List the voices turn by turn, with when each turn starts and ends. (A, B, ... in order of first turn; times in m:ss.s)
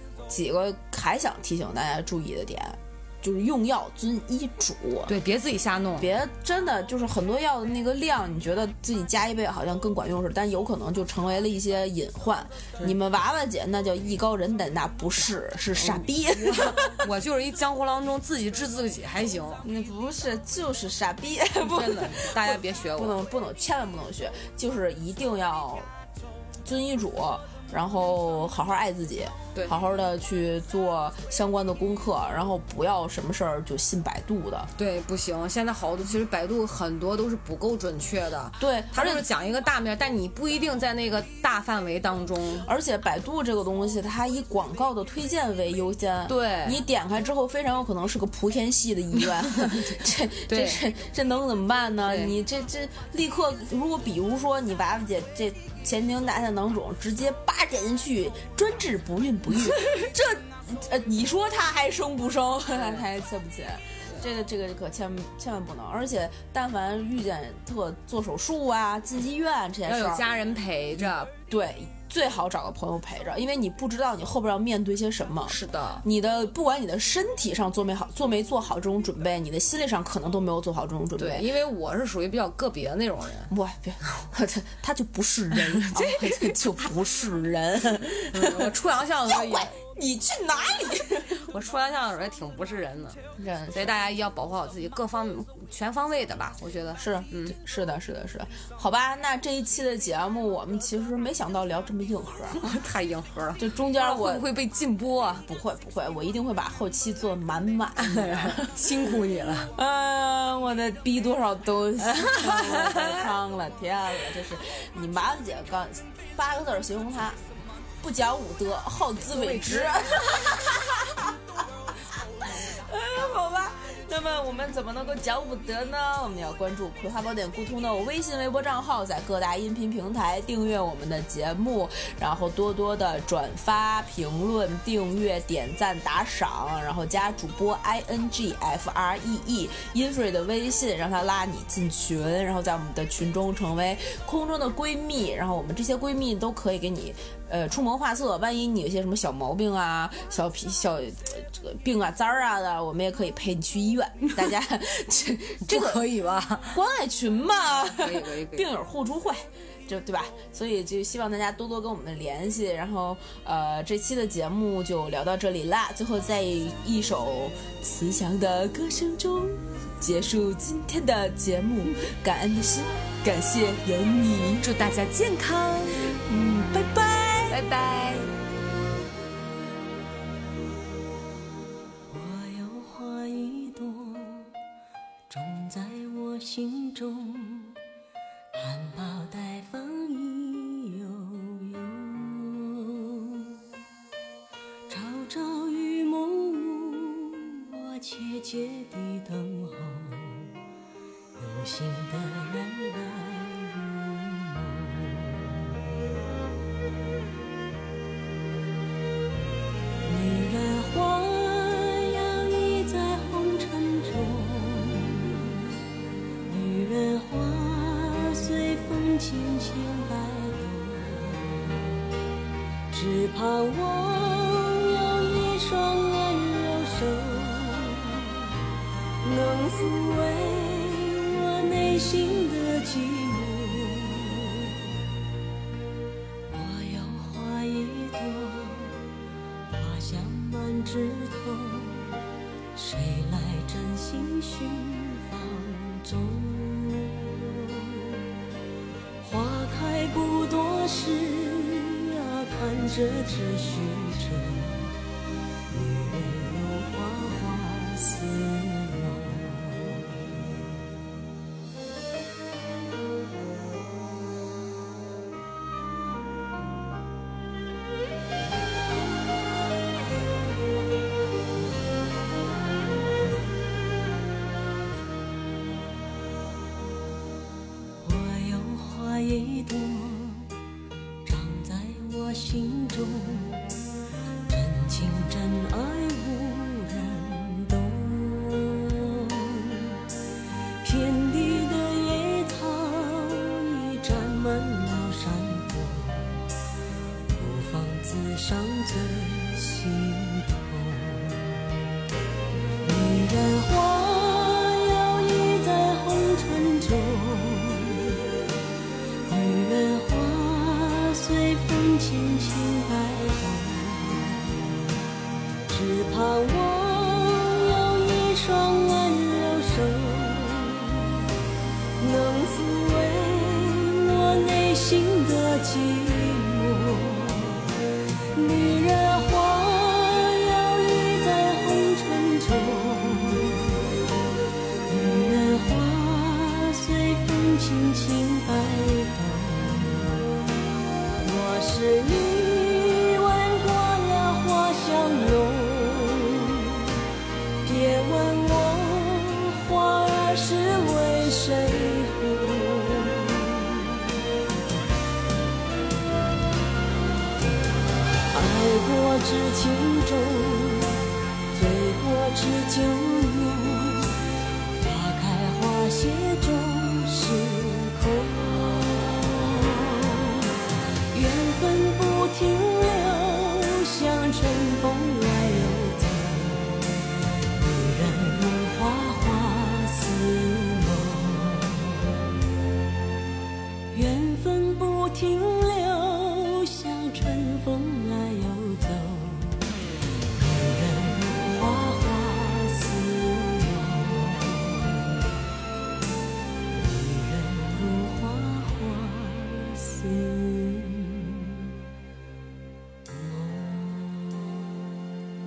0:00.3-0:05.1 A
0:05.1-0:06.1 B
0:06.0-0:17.0 A
0:15.7-0:19.6 B
0:19.6-0:25.9 A
0:21.6-0:23.2 B
0:26.6-0:34.7 A
0:34.8-0:42.7 B
0:38.6-0:39.3 A
0:42.6-1:10.3 A
0:46.3-0:46.8 B
0:49.3-0:50.8 B
0:52.0-0:52.4 B
0:59.5-0:59.8 B
1:02.7-1:03.1 B
1:09.9-1:11.3 B
1:11.5-1:21.5 A
1:15.5-1:16.0 B
1:21.2-1:23.5 B
1:23.5-1:28.8 A
1:25.5-1:26.9 B
1:28.3-1:29.8 B
1:29.3-1:31.4 A
1:31.3-1:33.2 B
1:33.4-1:33.9 A
1:33.7-1:37.6 B
1:37.0-1:42.7 A
1:42.6-1:45.5 B
1:43.6-1:44.5 A
1:45.5-1:49.1 A
1:48.0-1:49.7 B
1:49.7-1:57.4 A
1:52.1-1:53.2 B
1:58.0-2:01.4 A
1:59.3-2:00.6 B
2:02.1-2:36.0 A
2:35.6-2:36.8 B
2:36.7-2:54.7 A
2:37.9-2:38.7 B
2:54.6-2:56.1 B
2:56.2-2:57.5 A
2:57.5-2:58.3 B
3:02.1-3:04.5 C
3:05.3-3:07.8 C
3:08.5-3:13.6 C
3:14.9-3:20.6 C
3:21.4-3:25.8 C
3:30.0-3:35.7 C
3:36.5-3:41.9 C
3:42.9-3:48.5 C
3:49.2-3:54.8 C
3:56.5-3:59.0 C
3:59.7-4:02.1 C
4:02.7-4:08.2 C
4:09.2-4:14.9 C
4:15.7-4:20.6 C
4:38.0-4:40.5 C
4:41.2-4:43.7 C
4:44.5-4:50.0 C
4:50.8-4:56.5 C
4:57.3-5:01.8 C
5:02.8-5:08.2 C
5:09.3-5:14.6 C
5:15.7-5:21.3 C
5:22.0-5:27.7 C
5:28.3-5:33.8 C
5:34.9-5:40.2 C
5:41.2-5:46.9 C
5:47.6-5:54.1 C
5:58.3-6:04.2 C
6:04.8-6:10.6 C
6:11.1-6:17.0 C
6:17.5-6:22.2 C
6:23.9-6:29.7 C
6:30.3-6:35.4 C
6:36.7-6:41.8 C
6:43.1-6:44.6 C